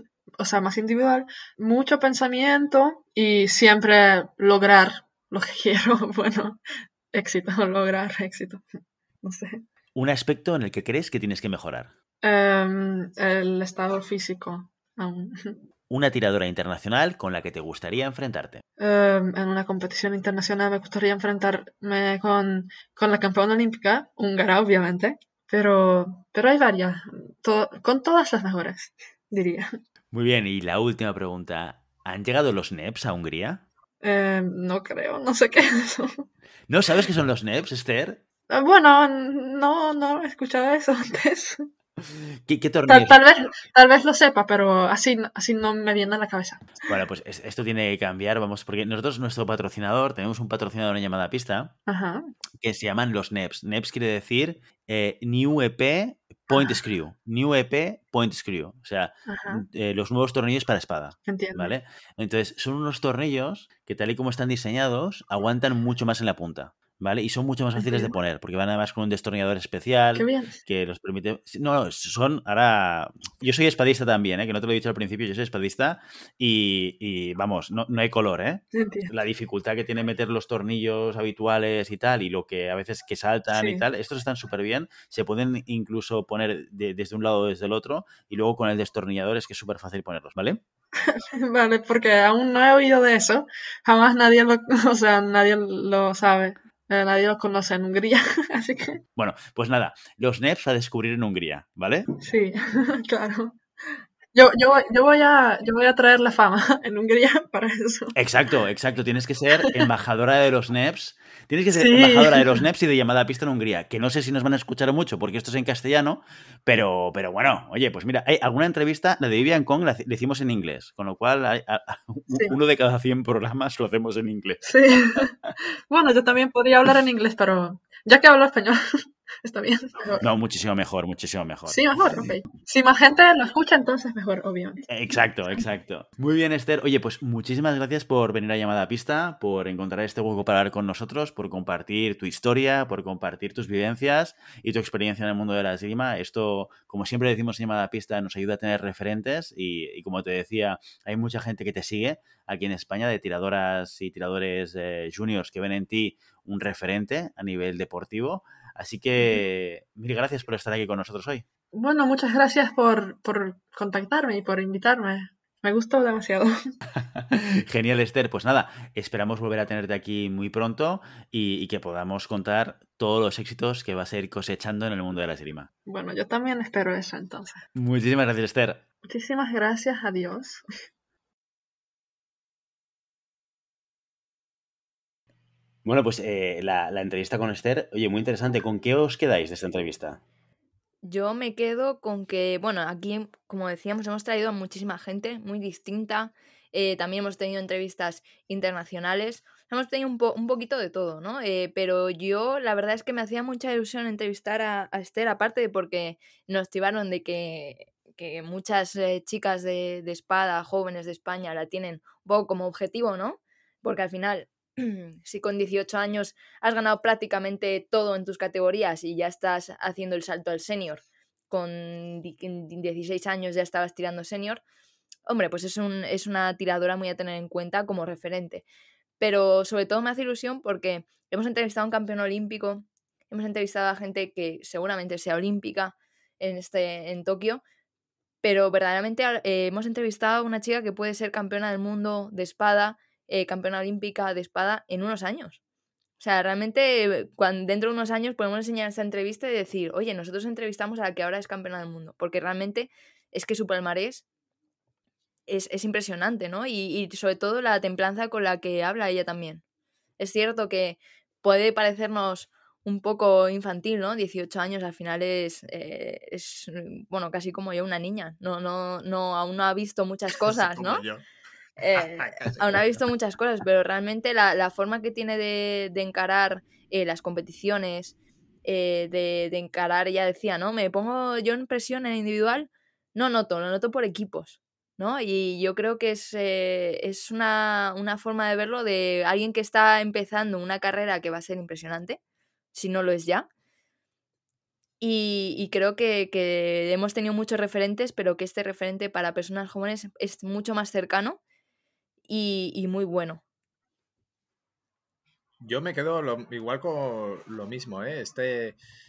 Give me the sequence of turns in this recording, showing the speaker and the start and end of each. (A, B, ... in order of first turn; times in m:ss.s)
0:00.4-0:06.6 A
0:07.1-0:08.6 A
0:09.2-0:09.6 A
0:10.0-0:11.9 B
0:12.2-0:15.6 A
0:15.9-0:18.6 B
0:18.8-0:29.7 A
0:30.1-0:33.6 B
0:34.0-0:36.3 A
0:36.7-0:38.2 B
0:38.5-0:41.7 A
0:42.5-0:43.2 B
0:42.9-0:46.9 A
0:46.9-0:51.7 B
0:51.9-0:52.2 A
0:52.6-1:30.6 B
0:56.5-0:56.8 A
0:59.3-0:59.6 A
1:01.3-1:01.7 A
1:07.8-1:08.2 A
1:10.2-1:10.6 A
1:18.7-1:19.1 A
1:23.5-1:23.8 A
1:31.1-1:39.0 A
1:39.2-1:42.1 B
1:42.2-1:43.6 A
1:44.3-1:48.2 A
1:48.2-2:04.7 B
1:51.7-1:52.6 A
2:04.6-2:05.4 A
2:05.9-2:08.8 A
2:09.4-2:10.3 A
2:10.2-2:12.3 B
2:11.7-2:14.9 A
2:14.9-2:41.4 B
2:39.2-2:39.4 A
2:41.7-2:46.8 A
2:47.2-2:55.7 B
2:55.9-2:57.6 A
2:57.8-2:58.8 B
2:59.1-3:00.6 A
3:05.8-3:10.2 C
3:11.0-3:44.6 D
3:45.3-3:48.6 D
3:49.2-3:57.6 D
3:58.4-4:05.6 D
4:06.2-4:14.2 D
4:15.5-4:19.6 D
4:20.2-4:31.0 D
4:30.4-4:31.2 E
4:31.8-4:52.2 D
4:32.1-4:32.8 E
4:52.7-4:53.5 D
4:55.0-5:01.4 D
5:02.3-5:03.4 D
5:05.6-5:08.8 E